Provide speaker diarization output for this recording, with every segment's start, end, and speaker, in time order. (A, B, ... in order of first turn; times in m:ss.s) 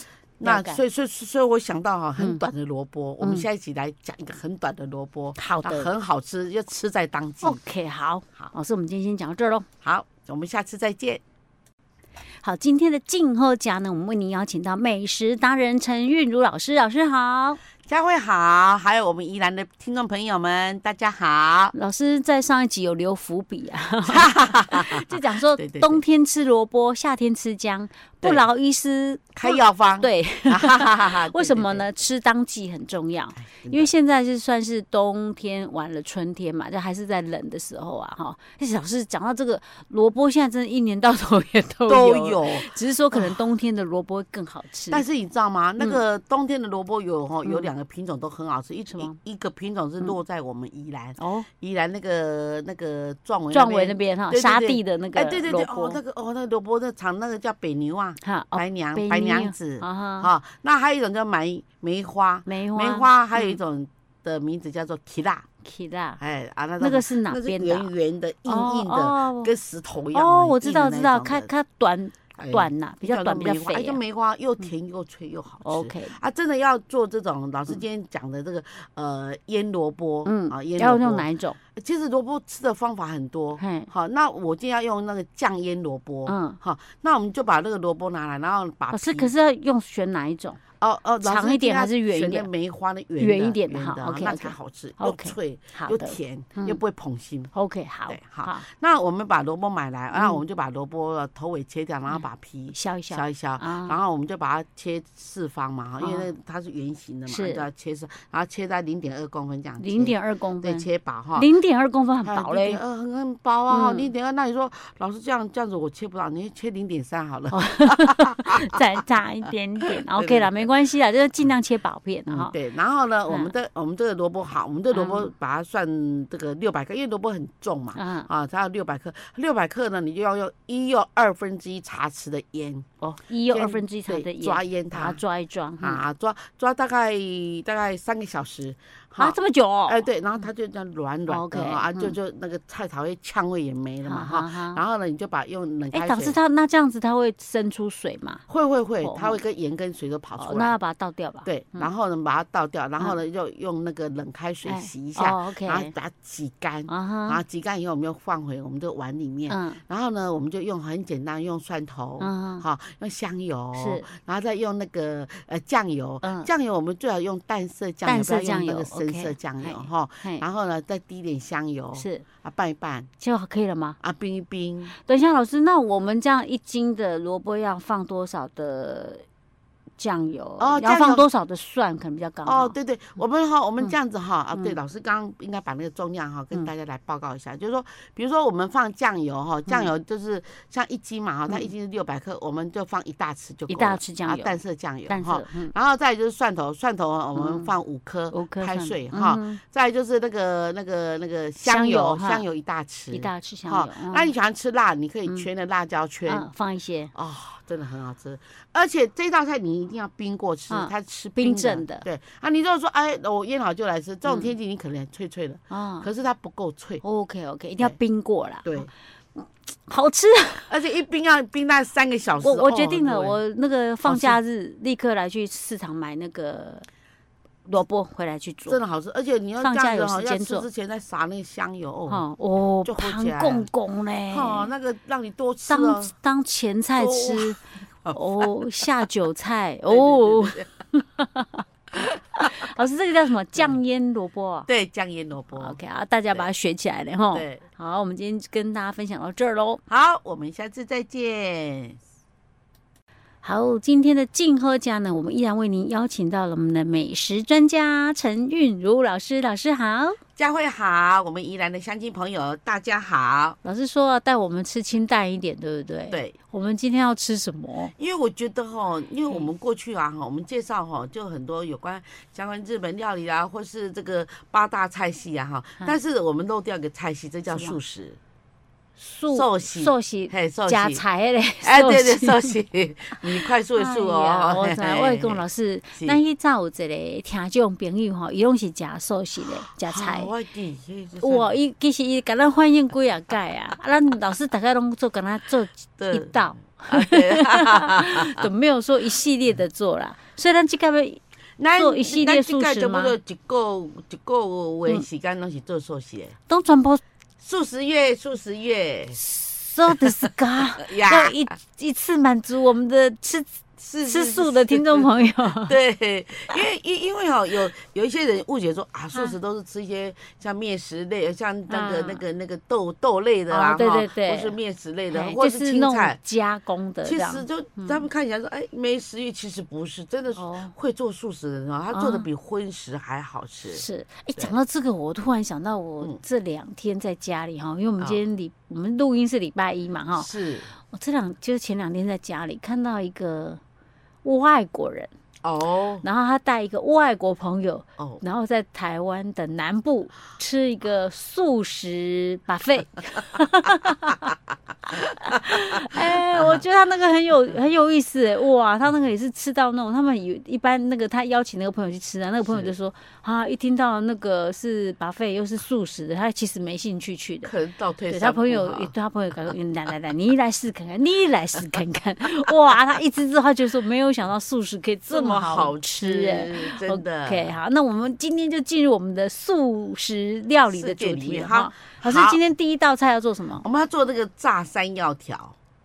0:00.4-0:07.6 A
0:00.4-0:00.8 B
0:02.2-0:02.4 B
0:03.2-0:03.5 B
0:05.4-0:05.9 B
0:07.4-0:09.7 B
0:09.8-0:11.2 A
0:12.4-0:17.6 B
0:17.9-0:21.7 A
0:21.7-0:45.0 B
0:24.1-0:26.0 A
0:29.4-0:31.9 A
0:33.4-0:33.9 A
0:41.9-0:43.4 A
0:44.9-1:05.4 A
0:47.4-0:47.7 B
0:51.2-0:51.5 B
0:53.5-0:56.0 B
0:58.2-1:00.3 B
1:02.5-1:03.6 B
1:05.6-1:06.2 B
1:06.2-1:11.5 A
1:06.8-1:07.9 B
1:08.5-1:09.5 B
1:10.1-1:14.0 B
1:12.4-1:29.3 A
1:15.6-1:16.2 B
1:20.2-1:21.6 B
1:23.6-1:23.9 B
1:26.3-1:26.6 B
1:28.9-1:30.6 B
1:30.8-1:37.5 A
1:31.2-1:32.5 B
1:33.2-1:36.8 B
1:37.5-1:38.6 B
1:38.1-1:51.5 A
1:40.1-1:40.4 B
1:42.7-1:44.0 B
1:46.0-1:46.3 B
1:47.3-1:47.6 B
1:49.8-1:52.8 B
1:52.2-1:58.8 A
1:53.7-1:54.1 B
1:57.5-2:02.5 B
1:59.9-2:00.7 A
2:02.3-2:12.9 A
2:03.3-2:03.5 B
2:04.9-2:05.3 B
2:08.0-2:08.3 B
2:13.0-2:16.0 B
2:13.5-2:15.2 A
2:15.8-2:26.4 A
2:19.2-2:20.1 B
2:21.3-2:22.1 B
2:24.1-2:24.8 B
2:25.9-2:28.4 B
2:28.5-2:30.8 A
2:29.0-2:29.4 B
2:30.4-2:31.9 B
2:31.4-2:53.1 A
2:34.6-2:35.9 B
2:36.9-2:37.4 B
2:39.5-2:39.8 B
2:42.2-2:42.6 B
2:43.7-2:44.1 B
2:46.2-2:46.5 B
2:48.0-2:50.4 B
2:52.0-2:52.2 B
2:53.2-2:54.0 B
2:54.0-2:54.9 A
2:55.0-2:59.2 B
3:00.0-3:02.8 B
3:00.6-3:01.2 A
3:02.4-3:26.4 A
3:13.7-3:15.7 B
3:17.4-3:17.7 B
3:18.3-3:19.6 B
3:21.6-3:22.4 B
3:23.1-3:24.3 B
3:26.2-3:27.1 B
3:27.1-3:37.0 A
3:30.7-3:32.0 B
3:34.2-3:34.5 B
3:35.7-3:36.1 B
3:37.0-3:40.7 B
3:38.6-3:38.9 A
3:40.7-3:43.4 A
3:42.4-3:46.9 B
3:44.0-3:44.4 A
3:47.6-3:48.8 B
3:48.7-3:52.2 A
3:49.6-3:50.6 B
3:52.1-3:54.7 B
3:52.8-3:53.7 A
3:54.3-3:56.1 A
3:55.7-3:57.6 B
3:57.0-3:58.9 A
3:58.1-4:04.7 B
3:59.9-4:00.7 A
4:02.0-4:02.5 A
4:04.7-4:05.8 A
4:05.5-4:09.8 B
4:07.3-4:07.6 A
4:09.9-4:12.0 A
4:13.4-4:20.2 B
4:20.4-4:23.6 A
4:23.6-4:27.9 B
4:26.1-4:26.4 A
4:28.0-4:38.2 A
4:37.5-4:37.8 B
4:39.0-4:42.6 B
4:39.3-4:41.0 A
4:41.6-4:45.4 A
4:43.4-4:50.3 B
4:46.0-4:46.2 A
4:49.7-4:51.6 A
4:51.2-5:01.2 B
4:56.0-4:58.5 A
5:01.6-5:06.4 A
5:01.7-5:03.2 B
5:06.5-5:07.0 B
5:07.4-5:09.2 A
5:09.1-5:15.8 B
5:09.9-5:11.5 A
5:13.8-5:26.2 A
5:21.7-5:22.2 B
5:23.5-5:24.6 B
5:25.1-5:28.0 B
5:27.0-5:33.8 A
5:30.4-5:30.7 B
5:31.9-5:32.3 B
5:33.7-5:40.3 B
5:40.1-5:40.7 A
5:40.8-5:43.6 B
5:44.2-5:45.1 B
5:45.4-5:46.0 A
5:46.0-5:54.3 B
5:54.9-6:07.5 B
5:55.9-5:56.6 A
6:02.5-6:02.7 A
6:07.4-6:08.9 A
6:08.1-6:23.6 B
6:15.1-6:17.6 A
6:20.7-6:22.4 A
6:23.6-6:25.6 A